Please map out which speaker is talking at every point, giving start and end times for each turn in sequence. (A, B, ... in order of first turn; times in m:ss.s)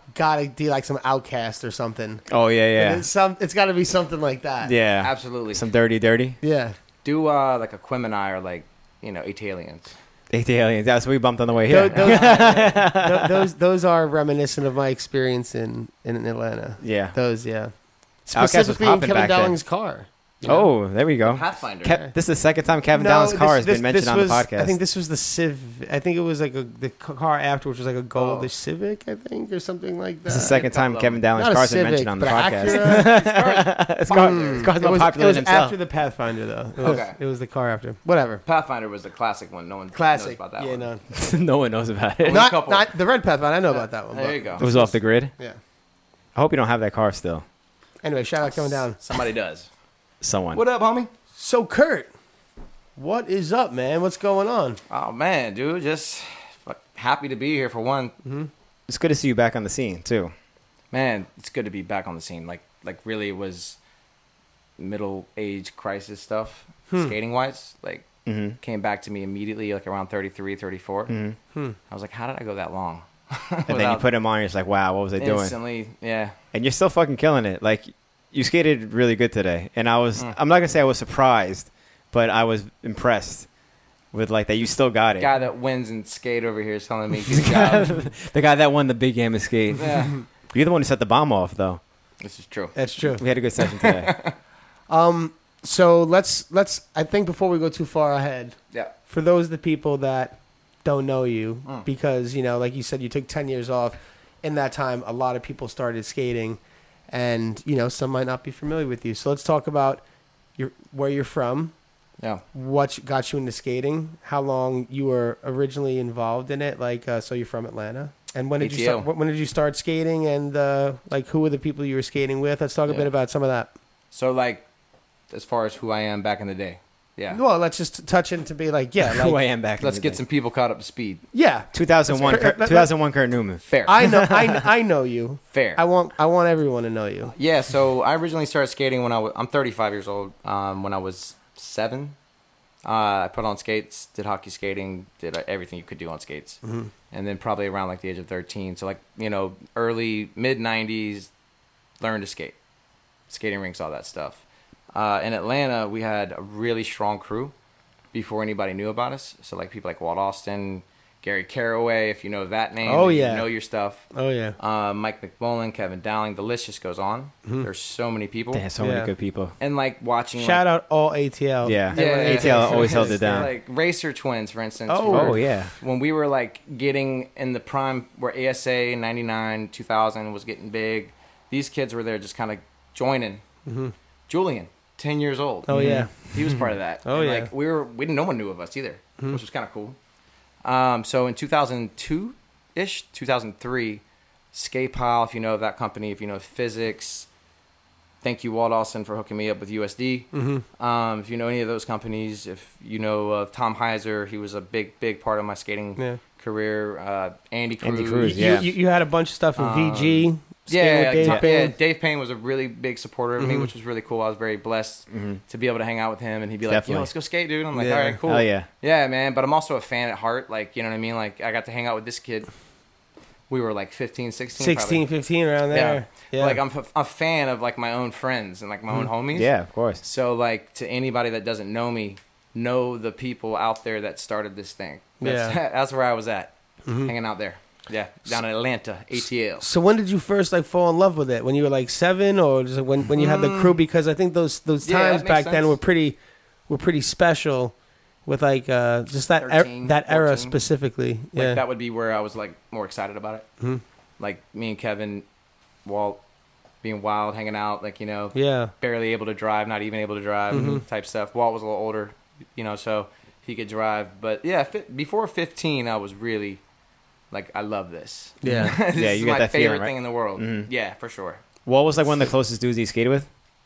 0:00.2-0:02.2 A
0:02.3-0:03.1 B
0:02.8-0:04.7 A
0:04.6-0:06.4 B
0:05.0-0:05.7 C
0:06.4-0:06.8 A
0:07.0-0:09.9 C
0:10.3-0:13.5 B
0:11.7-0:17.7 A
0:11.9-0:12.5 C
0:16.8-0:17.2 B
0:18.3-0:20.7 A
0:18.4-0:19.6 B
0:20.4-0:24.7 B
0:21.2-0:22.0 C
0:22.9-0:30.6 A
0:28.2-0:28.5 C
0:30.3-0:35.8 B
0:30.5-0:31.2 C
0:31.3-0:33.2 A
0:32.4-0:34.7 C
0:34.1-0:38.4 A
0:36.8-0:37.2 C
0:38.5-0:40.9 C
0:39.9-0:41.0 A
0:41.1-0:42.5 B
0:42.2-0:42.9 C
0:42.3-0:45.6 A
0:43.7-0:44.6 C
0:44.6-0:45.3 B
0:46.4-0:47.4 B
0:48.0-0:49.0 A
0:49.0-0:49.7 C
0:50.2-0:50.6 B
0:50.5-0:51.1 C
0:51.4-0:52.1 A
0:53.0-0:54.8 A
0:54.9-0:58.1 C
0:58.2-0:58.5 A
0:58.9-1:00.3 B
1:00.9-1:03.8 C
1:04.8-1:08.1 C
1:08.2-1:08.6 B
1:08.6-1:11.2 C
1:11.1-1:11.4 B
1:11.9-1:14.1 C
1:13.7-1:15.6 B
1:15.2-1:16.4 C
1:16.5-1:23.5 B
1:24.1-1:25.3 B
1:25.2-1:28.0 C
1:27.3-1:31.8 B
1:29.8-1:30.2 C
1:32.2-1:32.7 C
1:32.8-1:33.2 A
1:33.1-1:34.2 B
1:33.6-1:34.4 C
1:34.9-1:38.6 A
1:39.1-1:50.0 A
1:50.6-1:51.7 A
1:52.5-2:03.7 A
1:58.6-1:59.1 C
2:04.1-2:04.6 C
2:05.3-2:07.4 C
2:07.3-2:09.4 A
2:09.0-2:10.2 B
2:09.8-2:11.2 C
2:11.3-2:12.9 A
2:11.7-2:14.7 B
2:13.7-2:14.0 C
2:13.8-2:17.3 A
2:15.5-2:15.8 C
2:17.4-2:22.2 C
2:22.8-2:26.6 C
2:26.6-2:26.9 A
2:27.1-2:31.3 C
2:32.0-2:32.6 C
2:33.3-2:34.4 C
2:34.9-2:37.5 C
2:38.1-2:44.1 C
2:42.8-2:43.5 A
2:44.1-2:44.6 A
2:44.6-2:48.6 C
2:48.5-2:49.5 B
2:48.8-2:49.1 A
2:49.6-2:50.6 C
2:50.4-2:53.5 A
2:51.6-2:53.5 B
2:51.9-3:03.4 C
2:54.9-2:55.4 A
2:55.1-2:55.7 B
3:03.7-3:03.9 A
3:04.3-3:10.0 C
3:05.7-3:06.1 A
3:05.7-3:06.1 B
3:07.0-3:07.5 A
3:10.6-3:14.0 C
3:14.5-3:17.3 C
3:18.2-3:28.7 C
3:20.3-3:20.6 A
3:27.8-3:28.7 B
3:28.2-3:31.7 A
3:29.6-3:42.5 C
3:33.4-3:33.7 A
3:35.1-3:35.4 B
3:36.7-3:37.1 B
3:37.7-3:38.2 A
3:38.3-3:38.7 B
3:43.5-3:45.1 C
3:44.6-3:46.6 A
3:45.7-3:56.5 C
3:49.3-3:50.0 B
3:55.2-3:55.6 A
3:56.9-3:57.1 A
3:57.0-3:59.6 C
3:59.6-4:06.2 A
4:03.2-4:03.8 C
4:04.8-4:05.8 C
4:06.7-4:07.7 A
4:08.3-4:11.6 A
4:09.4-4:10.6 C
4:11.4-4:13.5 C
4:14.2-4:15.2 C
4:15.8-4:16.2 C
4:16.8-4:26.6 C
4:18.3-4:18.7 A
4:20.5-4:20.8 A
4:27.3-4:31.4 C
4:28.4-4:28.8 A
4:28.5-4:30.7 B
4:31.7-4:33.3 B